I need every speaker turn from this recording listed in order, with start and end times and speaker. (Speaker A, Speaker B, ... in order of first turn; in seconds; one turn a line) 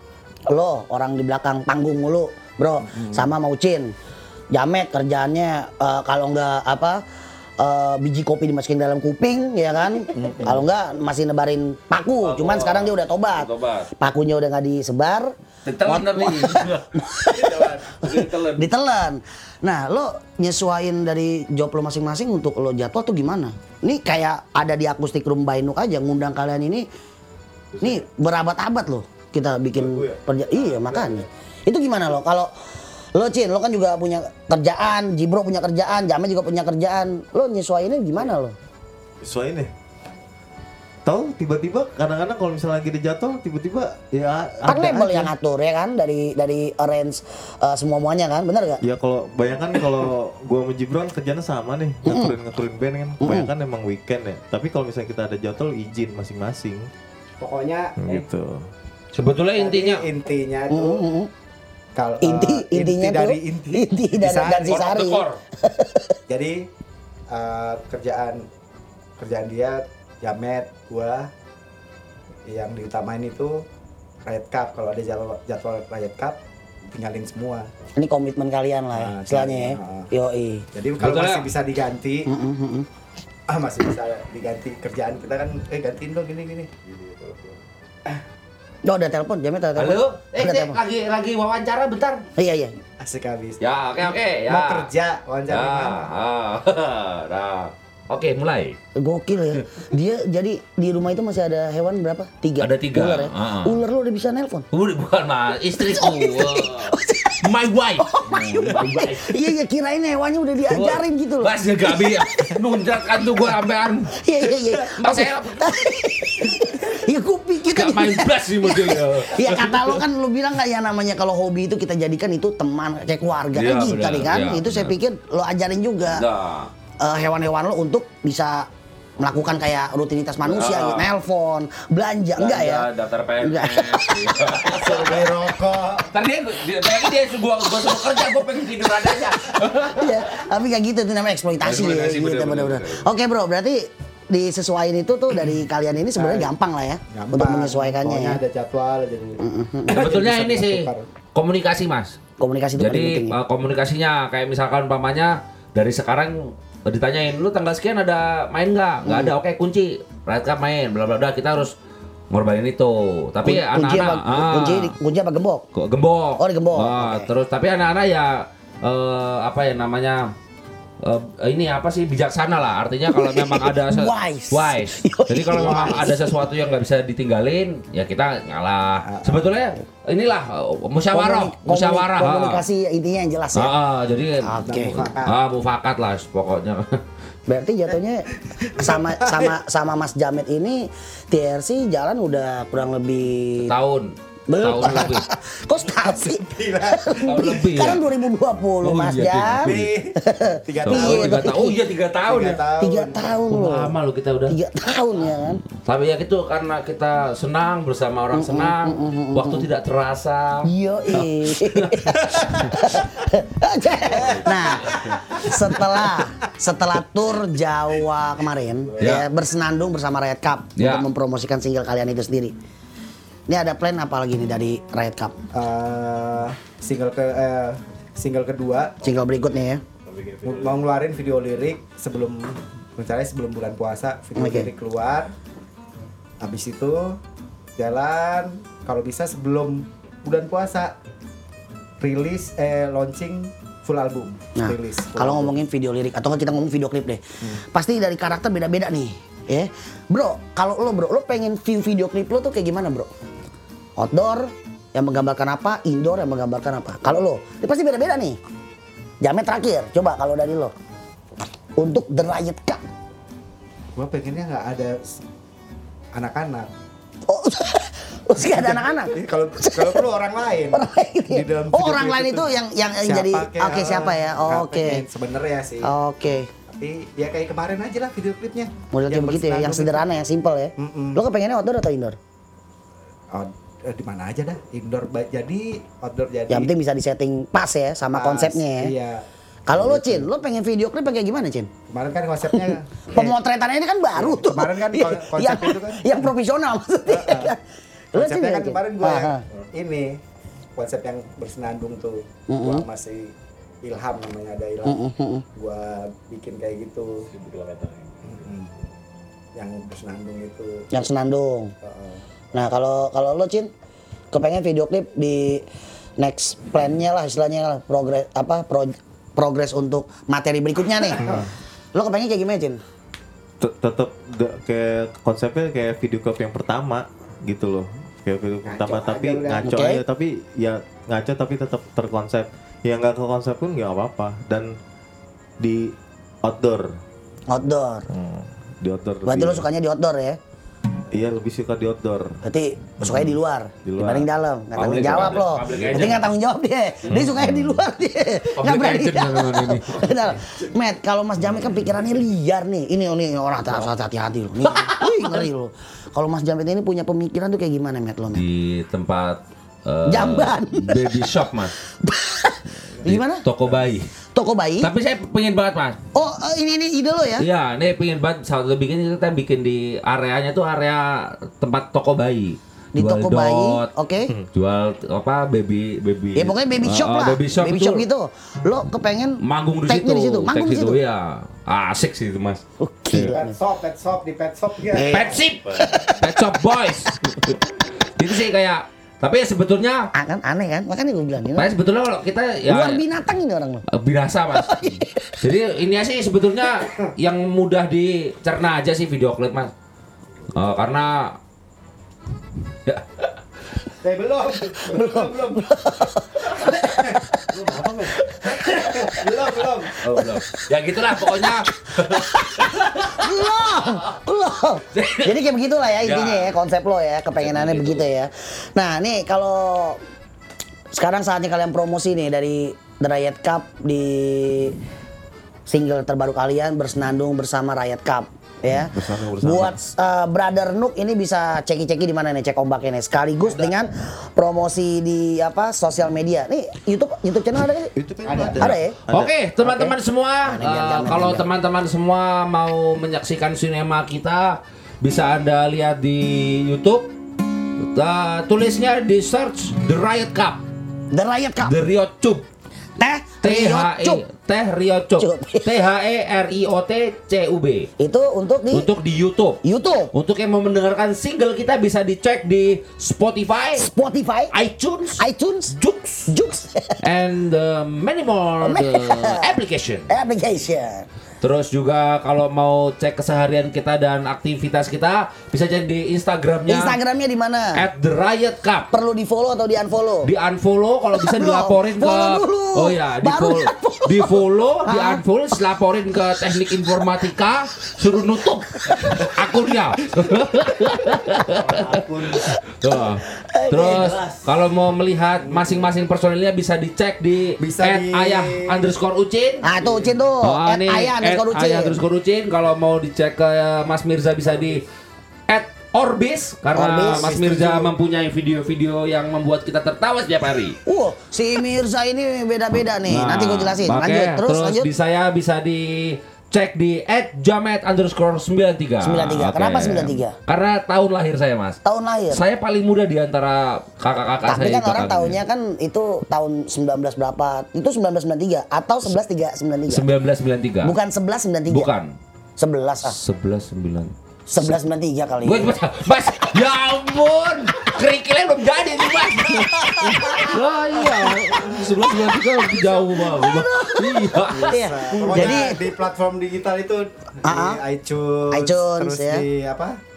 Speaker A: 0.5-3.9
Speaker B: 2.9-3.3
Speaker A: 4.5-7.0
Speaker A: 7.6-15.3
Speaker B: 10.2-10.7
Speaker C: 12.2-13.9
Speaker C: 15.7-18.7
Speaker A: 15.8-26.9
Speaker D: 27.7-28.0
Speaker A: 27.8-32.5
Speaker D: 29.7-31.2
Speaker A: 33.2-38.5
Speaker D: 39.2-39.7
Speaker D: 41.0-45.3
Speaker A: 44.6-48.8
Speaker D: 48.8-56.9
Speaker A: 52.0-52.4
Speaker A: 53.2-53.5
Speaker B: 57.4-58.2
Speaker D: 58.0-58.6
Speaker C: 59.1-60.0
Speaker B: 59.6-61.0
Speaker A: 60.7-61.3
Speaker B: 62.0-64.9
Speaker A: 62.2-66.2
Speaker C: 64.7-65.4
Speaker B: 66.3-66.7
Speaker B: 67.3-68.4
Speaker B: 69.2-71.3
Speaker B: 72.5-73.7
Speaker B: 74.2-76.4
Speaker B: 76.9-77.7
Speaker A: 78.0-80.7
Speaker B: 78.9-80.1
Speaker B: 80.7-82.3
Speaker C: 81.0-81.5
Speaker A: 82.3-82.9
Speaker B: 83.5-86.7
Speaker D: 86.9-87.6
Speaker A: 88.8-90.8
Speaker C: 89.8-92.2
Speaker A: 92.4-92.7
Speaker B: 93.0-96.1
Speaker C: 93.6-94.9
Speaker C: 95.5-98.8
Speaker A: 99.0-104.7
Speaker C: 102.6-103.8
Speaker C: 104.7-109.5
Speaker A: 105.8-112.6
Speaker C: 110.7-115.8
Speaker A: 114.2-126.2
Speaker C: 117.7-120.0
Speaker C: 123.5-124.9
Speaker C: 126.1-126.7
Speaker A: 127.0-128.7
Speaker A: 129.2-132.9
Speaker C: 130.5-131.1
Speaker C: 132.4-135.3
Speaker A: 133.4-134.7
Speaker B: 134.7-136.1
Speaker C: 136.1-140.4
Speaker A: 140.0-148.4
Speaker C: 141.6-143.1
Speaker B: 146.2-146.5
Speaker B: 147.1-151.1
Speaker A: 149.4-150.0
Speaker C: 149.9-152.2
Speaker A: 152.4-153.4
Speaker C: 152.8-161.7
Speaker A: 159.0-159.4
Speaker C: 162.3-164.9
Speaker A: 163.4-165.6
Speaker C: 165.8-170.3
Speaker A: 166.4-167.3
Speaker C: 171.0-182.6
Speaker A: 173.1-176.3
Speaker B: 175.6-176.1
Speaker B: 179.1-179.5
Speaker A: 181.1-183.8
Speaker C: 183.6-187.0
Speaker A: 184.4-185.0
Speaker B: 184.7-185.4
Speaker A: 187.5-193.7
Speaker B: 188.6-189.6
Speaker C: 193.6-195.3
Speaker A: 194.5-201.8
Speaker B: 195.9-197.4
Speaker C: 197.2-198.0
Speaker C: 198.8-200.0
Speaker B: 199.6-201.7
Speaker C: 200.8-202.6
Speaker B: 202.2-203.4
Speaker A: 202.8-203.9
Speaker C: 203.5-204.6
Speaker A: 204.5-205.6
Speaker C: 205.7-212.7
Speaker A: 208.3-209.7
Speaker A: 210.6-222.6
Speaker B: 214.3-216.0
Speaker C: 219.0-219.3
Speaker C: 220.8-221.1
Speaker A: 223.5-225.3
Speaker B: 225.5-229.0
Speaker A: 229.0-229.8
Speaker D: 229.1-230.8
Speaker B: 230.4-235.3
Speaker A: 234.4-234.7
Speaker B: 236.4-237.2
Speaker B: 237.8-240.9
Speaker B: 242.0-245.6
Speaker A: 244.6-253.1
Speaker A: 254.0-258.4
Speaker A: 259.2-260.7
Speaker A: 261.8-262.8
Speaker B: 264.0-265.2
Speaker B: 266.1-266.7
Speaker A: 267.3-270.0
Speaker B: 268.5-275.9
Speaker A: 270.7-275.0
Speaker A: 275.8-276.5
Speaker B: 276.7-280.2
Speaker A: 278.9-282.2
Speaker B: 280.8-281.2
Speaker B: 283.3-286.7
Speaker A: 286.5-288.9
Speaker B: 288.1-290.3
Speaker A: 289.7-291.7
Speaker B: 291.9-293.4
Speaker A: 292.5-297.6
Speaker B: 294.1-296.3
Speaker B: 297.1-297.6
Speaker A: 298.1-299.4
Speaker B: 298.1-300.2
Speaker B: 300.8-305.0
Speaker A: 302.5-302.8
Speaker A: 304.9-305.4
Speaker B: 305.5-307.2
Speaker D: 307.3-308.4
Speaker B: 308.2-308.7
Speaker B: 309.6-310.9
Speaker A: 310.9-311.7
Speaker B: 311.8-312.2
Speaker A: 312.5-313.7
Speaker A: 314.3-315.6
Speaker A: 316.2-321.2
Speaker B: 321.1-321.5
Speaker A: 321.9-322.8
Speaker D: 323.6-334.7
Speaker B: 328.6-329.7
Speaker A: 329.6-330.0
Speaker D: 335.6-336.9
Speaker A: 337.5-338.1
Speaker D: 338.1-339.7
Speaker A: 339.3-340.4
Speaker D: 341.1-342.4
Speaker A: 342.4-358.4
Speaker D: 343.0-344.3
Speaker C: 344.8-346.3
Speaker D: 344.8-346.2
Speaker C: 347.1-347.7
Speaker C: 348.6-350.2
Speaker C: 351.5-351.8
Speaker C: 354.7-355.5
Speaker C: 358.3-361.7
Speaker A: 360.1-361.1
Speaker A: 362.0-363.4
Speaker C: 363.1-364.1
Speaker D: 363.6-363.9
Speaker A: 364.4-364.9
Speaker C: 364.8-366.0
Speaker A: 366.1-367.5
Speaker C: 367.4-373.9
Speaker A: 372.9-374.3
Speaker C: 374.6-378.1
Speaker A: 376.4-381.0
Speaker C: 379.4-382.6
Speaker A: 382.8-383.6
Speaker B: 383.1-385.4
Speaker A: 384.9-386.4
Speaker C: 385.1-387.4
Speaker C: 388.2-390.1
Speaker A: 390.1-391.7
Speaker C: 391.6-393.0
Speaker A: 392.7-393.8
Speaker C: 393.9-399.7
Speaker A: 394.5-395.4
Speaker C: 400.5-401.4
Speaker C: 402.9-403.3
Speaker B: 404.0-405.9
Speaker A: 404.9-407.4
Speaker B: 406.7-407.2
Speaker D: 407.5-408.1
Speaker A: 408.3-409.2
Speaker B: 408.7-410.0
Speaker A: 409.9-410.5
Speaker C: 410.0-414.0
Speaker A: 411.2-420.0
Speaker C: 414.9-415.4
Speaker C: 416.0-416.6
Speaker C: 417.4-418.1
Speaker A: 420.9-424.8
Speaker A: 425.7-437.9
Speaker D: 428.7-429.8
Speaker D: 433.4-433.8
Speaker D: 438.0-439.3
Speaker B: 438.2-438.8
Speaker A: 438.6-439.0
Speaker C: 439.1-447.1
Speaker A: 439.6-441.5
Speaker C: 447.9-450.6
Speaker A: 451.1-451.8
Speaker C: 451.6-452.5
Speaker A: 453.0-454.2
Speaker C: 453.4-457.9
Speaker A: 455.2-455.9
Speaker A: 458.0-458.9
Speaker C: 458.7-459.6
Speaker A: 459.6-460.1
Speaker C: 460.1-463.9
Speaker A: 463.8-464.5
Speaker C: 464.5-465.2
Speaker A: 465.2-465.8
Speaker C: 465.8-466.4
Speaker A: 466.3-467.0
Speaker C: 467.0-470.1
Speaker A: 468.6-471.1
Speaker C: 471.4-477.0
Speaker A: 476.7-477.9
Speaker C: 477.7-478.9
Speaker A: 478.9-480.3
Speaker C: 480.2-499.7
Speaker A: 481.1-485.2
Speaker A: 488.8-489.4
Speaker D: 491.5-492.5
Speaker A: 492.4-494.2
Speaker D: 493.9-494.4
Speaker B: 497.6-498.9
Speaker A: 499.6-502.0
Speaker C: 500.4-504.8
Speaker C: 505.5-510.8
Speaker A: 506.7-507.3
Speaker B: 507.0-507.9
Speaker A: 510.9-514.9
Speaker C: 513.0-521.8
Speaker A: 519.0-520.4
Speaker A: 521.9-522.4
Speaker C: 522.3-525.4
Speaker A: 524.5-530.1
Speaker C: 529.9-531.0
Speaker A: 530.8-531.9
Speaker C: 531.7-532.1
Speaker A: 532.6-533.2
Speaker C: 533.0-534.7
Speaker A: 534.5-535.8
Speaker C: 535.4-545.8
Speaker A: 539.9-540.5
Speaker A: 543.1-545.8
Speaker B: 544.4-550.0
Speaker A: 547.5-547.8
Speaker A: 548.5-549.4